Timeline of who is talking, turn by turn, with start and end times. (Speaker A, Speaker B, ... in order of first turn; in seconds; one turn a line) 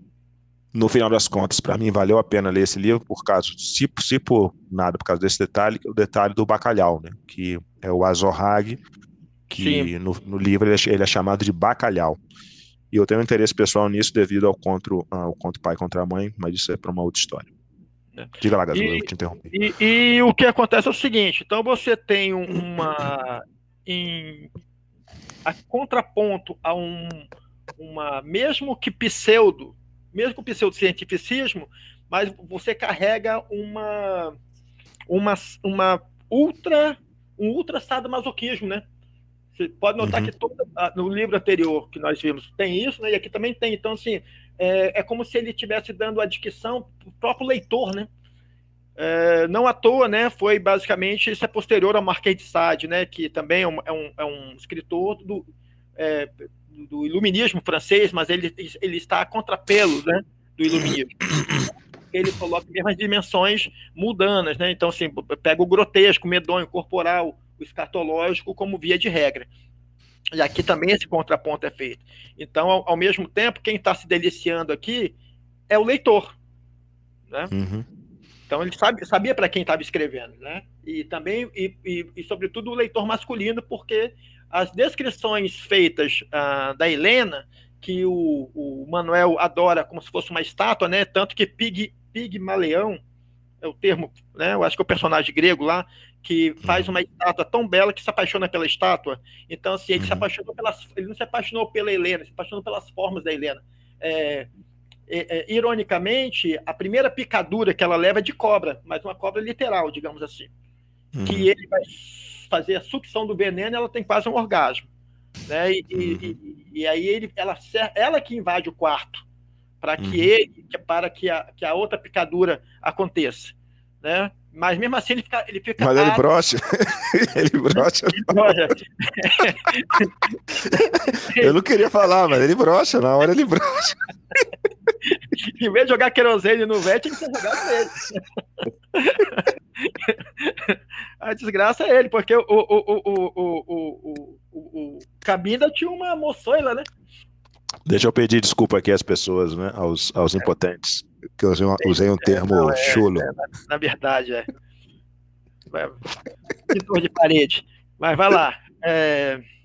Speaker A: 0.7-8.8
Speaker B: 9.5-9.9
Speaker A: 9.5-12.2
Speaker A: 12.9-17.5
Speaker B: 18.1-24.5
Speaker A: 18.4-19.5
Speaker B: 25.4-27.2
Speaker B: 27.8-34.4
Speaker B: 35.1-38.8
Speaker B: 39.5-48.1
Speaker A: 40.0-40.3
Speaker B: 49.0-55.4
Speaker B: 56.0-69.5
Speaker B: 70.3-75.1
Speaker B: 75.7-76.3
Speaker A: 77.5-77.8
Speaker B: 78.5-93.0
Speaker B: 93.6-104.5
Speaker A: 96.6-96.9
Speaker A: 100.0-100.2
Speaker B: 105.1-110.5
Speaker A: 111.1-111.5
Speaker B: 111.2-114.9
Speaker B: 115.5-119.2
Speaker A: 115.9-116.4
Speaker B: 119.8-126.2
Speaker A: 120.0-120.3
Speaker A: 125.8-128.5
Speaker B: 128.1-131.5
Speaker A: 131.4-134.0
Speaker B: 135.1-138.2
Speaker B: 138.9-146.9
Speaker A: 147.8-153.3
Speaker B: 151.8-154.5
Speaker B: 155.7-156.0
Speaker B: 156.7-159.4